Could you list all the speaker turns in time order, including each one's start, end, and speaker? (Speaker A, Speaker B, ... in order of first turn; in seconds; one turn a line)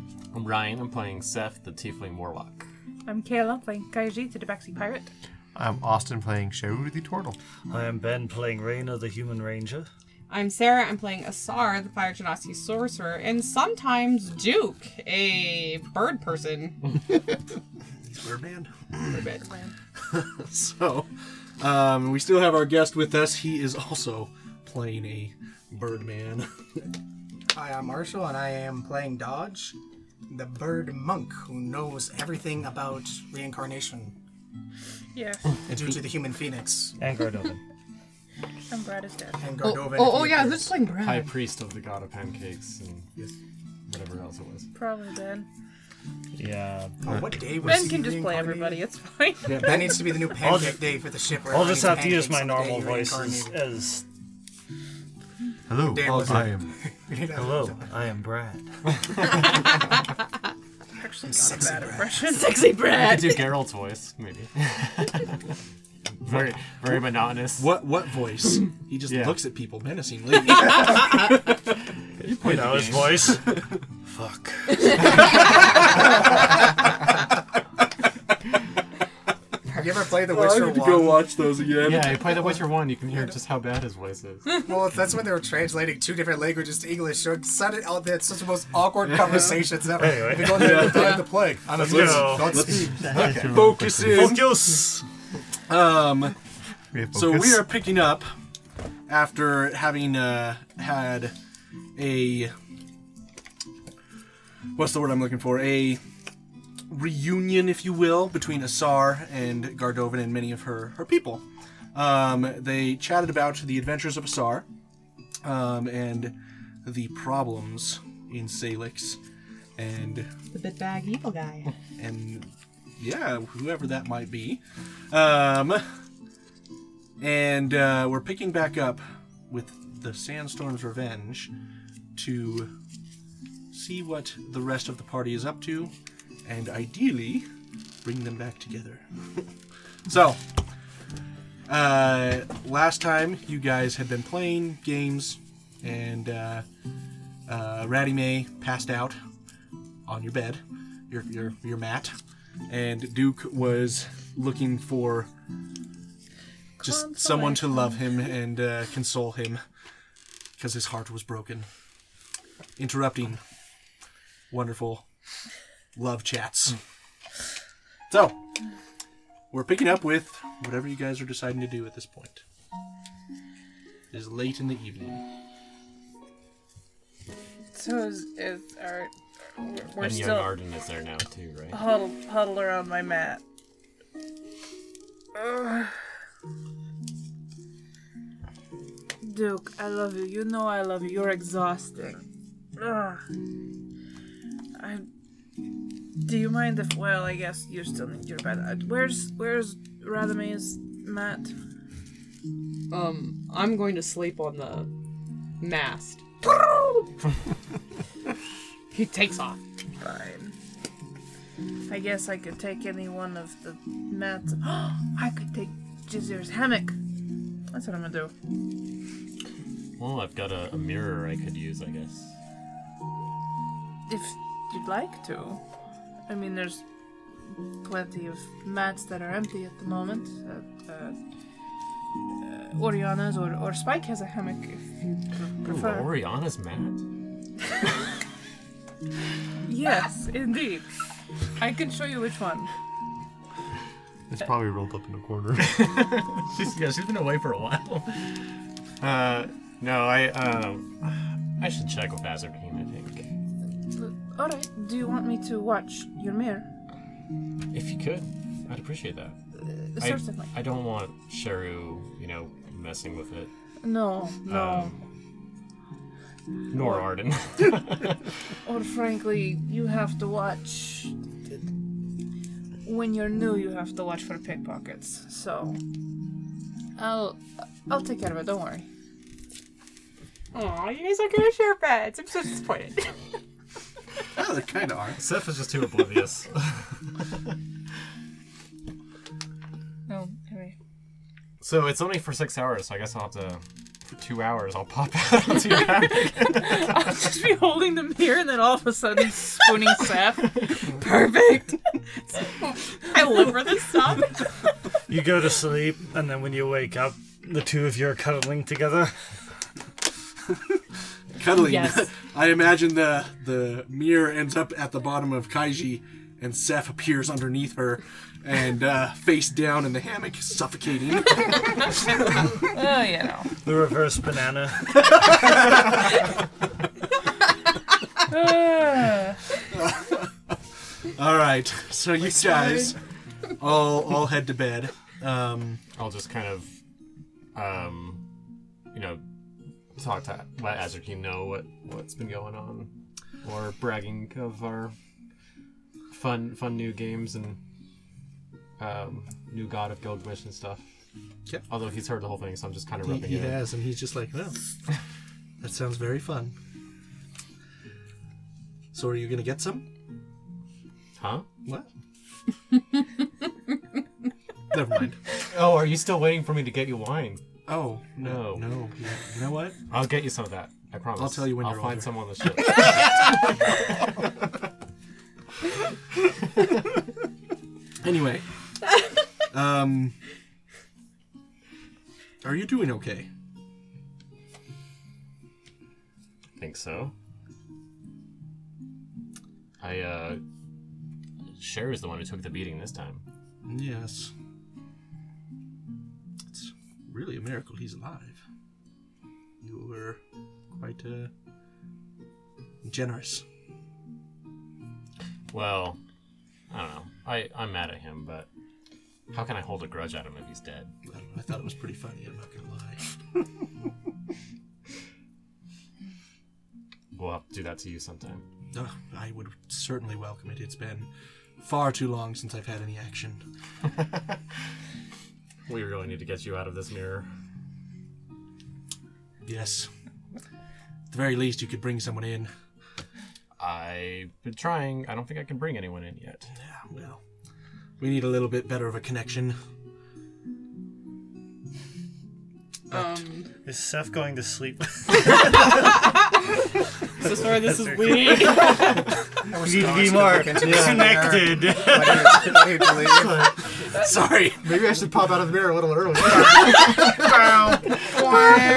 Speaker A: 0.3-2.7
Speaker B: 3.1-5.1
Speaker C: 5.5-7.4
Speaker D: 7.7-9.9
Speaker E: 10.3-16.9
Speaker F: 18.0-19.1
Speaker E: 19.1-19.7
Speaker F: 20.1-26.9
Speaker G: 27.5-29.8
Speaker G: 30.3-34.2
Speaker B: 35.1-35.6
Speaker G: 35.7-37.0
Speaker F: 35.7-36.1
Speaker D: 37.0-37.6
Speaker B: 38.7-39.4
Speaker G: 39.4-40.8
Speaker E: 39.6-41.4
Speaker A: 40.9-43.2
Speaker A: 43.9-44.7
Speaker B: 44.7-45.5
Speaker D: 46.3-47.3
Speaker G: 47.0-48.8
Speaker C: 47.1-47.4
Speaker B: 47.6-50.3
Speaker F: 49.5-49.8
Speaker G: 49.5-53.6
Speaker D: 50.4-54.0
Speaker C: 55.7-56.7
Speaker G: 55.9-57.9
Speaker F: 56.1-56.5
Speaker D: 57.3-59.4
Speaker B: 61.0-62.5
Speaker G: 61.3-62.2
Speaker E: 62.2-63.5
Speaker A: 62.9-65.4
Speaker A: 66.2-67.7
Speaker F: 67.6-71.6
Speaker A: 69.1-69.4
Speaker A: 72.2-73.3
Speaker D: 72.2-75.2
Speaker G: 79.7-81.3
Speaker F: 80.2-82.5
Speaker A: 81.8-84.5
Speaker G: 84.6-93.2
Speaker D: 90.0-95.1
Speaker F: 90.5-94.7
Speaker A: 93.1-93.6
Speaker C: 93.2-94.3
Speaker F: 95.7-96.4
Speaker C: 96.9-97.7
Speaker F: 97.1-98.3
Speaker F: 99.1-101.3
Speaker F: 102.0-102.5
Speaker F: 104.7-106.0
Speaker F: 106.9-114.7
Speaker F: 115.4-119.2
Speaker F: 119.8-120.3
Speaker E: 120.5-121.7
Speaker F: 122.0-126.0
Speaker F: 127.2-131.5
Speaker F: 132.2-132.7
Speaker F: 133.7-137.5
Speaker F: 138.0-139.5
Speaker F: 140.1-140.7
Speaker F: 141.7-146.7
Speaker F: 147.5-149.2
Speaker F: 150.1-152.2
Speaker F: 152.7-155.3
Speaker B: 156.8-158.0
Speaker F: 156.8-159.7
Speaker F: 160.6-161.7
Speaker F: 162.8-163.4
Speaker F: 164.5-165.1
Speaker F: 165.9-166.8
Speaker F: 168.1-168.4
Speaker F: 169.5-172.4
Speaker F: 174.1-175.2
Speaker B: 177.7-180.6
Speaker A: 180.0-181.8
Speaker B: 181.7-183.4
Speaker B: 185.3-186.0
Speaker B: 189.2-192.2
Speaker B: 192.8-193.2
Speaker B: 194.8-195.1
Speaker B: 196.2-201.5
Speaker E: 202.9-204.9
Speaker E: 205.6-206.8
Speaker E: 208.9-209.6
Speaker B: 210.0-210.6
Speaker B: 211.9-217.0
Speaker B: 217.7-218.3
Speaker A: 220.0-222.3
Speaker B: 224.1-225.6
Speaker B: 226.3-226.8
Speaker B: 227.4-231.2
Speaker B: 232.4-236.1
Speaker A: 235.6-237.0
Speaker B: 239.7-240.9
Speaker B: 241.6-242.7
Speaker C: 244.3-246.0
Speaker A: 245.6-253.3
Speaker B: 253.9-256.7
Speaker A: 257.7-259.4
Speaker B: 259.7-260.5
Speaker A: 260.0-263.5
Speaker B: 263.8-264.9
Speaker A: 264.5-265.0
Speaker A: 266.7-268.3
Speaker B: 266.7-267.1
Speaker B: 268.6-271.1
Speaker B: 272.9-275.8
Speaker B: 277.0-278.9
Speaker E: 280.5-283.2
Speaker F: 284.4-285.2
Speaker A: 285.2-286.9
Speaker B: 290.1-290.8
Speaker A: 291.6-296.9
Speaker B: 296.5-300.6
Speaker E: 300.6-301.8
Speaker E: 302.4-304.6
Speaker D: 305.1-309.6
Speaker F: 311.4-322.0
Speaker E: 311.5-312.1
Speaker B: 322.7-323.5
Speaker D: 323.6-325.6
Speaker F: 325.1-325.6
Speaker B: 328.3-329.4
Speaker F: 329.7-330.6
Speaker F: 331.1-333.0
Speaker G: 332.2-332.9
Speaker F: 333.6-335.8
Speaker A: 336.0-336.7
Speaker A: 337.5-338.2
Speaker A: 338.9-339.2
Speaker A: 339.9-344.9
Speaker A: 346.1-347.6
Speaker A: 348.8-350.9
Speaker A: 351.7-353.6
Speaker F: 353.0-354.8
Speaker F: 355.6-356.6
Speaker F: 358.9-359.9
Speaker A: 361.2-361.5
Speaker F: 364.7-365.2
Speaker A: 365.5-367.4
Speaker F: 367.7-369.8
Speaker A: 368.2-368.8
Speaker A: 369.9-373.5
Speaker F: 371.2-372.1
Speaker F: 378.0-378.6
Speaker F: 379.5-380.2
Speaker F: 382.4-383.3
Speaker A: 386.6-387.1
Speaker A: 389.8-390.4
Speaker A: 391.6-393.2
Speaker F: 393.6-394.3
Speaker F: 396.5-398.4
Speaker F: 399.6-400.2
Speaker F: 400.7-401.3
Speaker F: 402.8-403.4
Speaker A: 405.5-406.0
Speaker A: 406.7-408.5
Speaker A: 409.3-410.9
Speaker F: 411.1-413.1
Speaker A: 417.1-418.4
Speaker F: 418.7-423.4
Speaker A: 425.7-427.3
Speaker F: 429.4-429.9
Speaker F: 431.1-432.5
Speaker A: 433.6-436.5
Speaker F: 436.6-437.2
Speaker F: 438.0-439.6
Speaker E: 442.9-443.5
Speaker D: 442.9-445.7
Speaker E: 447.2-449.1
Speaker D: 447.2-448.7
Speaker G: 449.5-453.4
Speaker D: 449.5-452.9
Speaker A: 450.6-450.9
Speaker A: 453.0-453.7
Speaker F: 453.9-454.6
Speaker A: 454.6-457.2